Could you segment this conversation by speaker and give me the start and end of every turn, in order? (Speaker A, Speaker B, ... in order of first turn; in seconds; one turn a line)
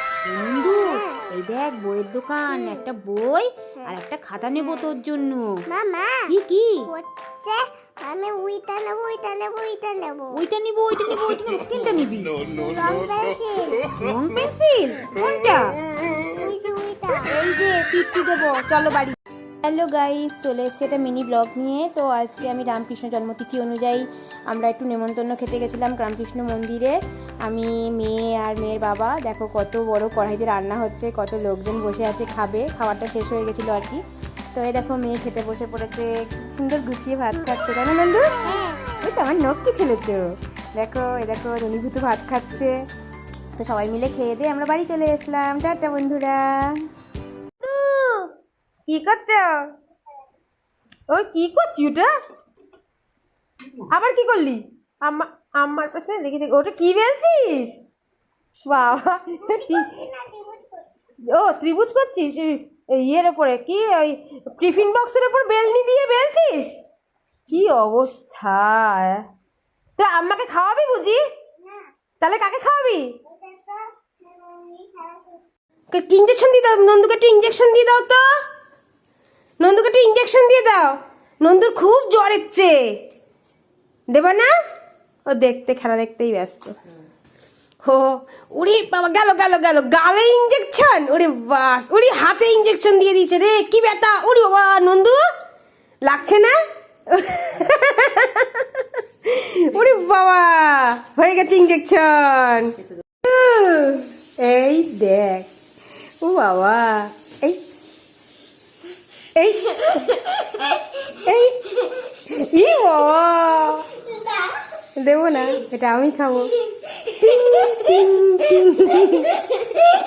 Speaker A: 0.2-5.7
Speaker B: 5.7-6.3
Speaker A: 6.3-6.9
Speaker B: 6.8-10.3
Speaker A: 10.3-12.4
Speaker B: 12.5-13.9
Speaker A: 13.9-15.8
Speaker B: 16.3-17.3
Speaker A: 17.3-34.0
Speaker A: 34.5-38.5
Speaker B: 38.5-38.8
Speaker A: 39.0-42.9
Speaker A: 43.5-46.9
Speaker A: 47.6-48.3
Speaker A: 48.9-49.7
Speaker A: 51.1-52.1
Speaker A: 53.9-57.8
Speaker A: 58.6-60.0
Speaker B: 59.5-60.9
Speaker A: 61.3-66.8
Speaker A: 67.5-69.3
Speaker A: 70.0-71.2
Speaker A: 72.2-73.1
Speaker B: 73.3-75.4
Speaker A: 75.9-78.4
Speaker A: 79.6-83.0
Speaker A: 84.1-84.5
Speaker A: 85.3-86.8
Speaker A: 87.8-95.2
Speaker A: 96.0-105.5
Speaker A: 106.2-107.6
Speaker A: 109.4-113.9
Speaker A: 115.0-119.7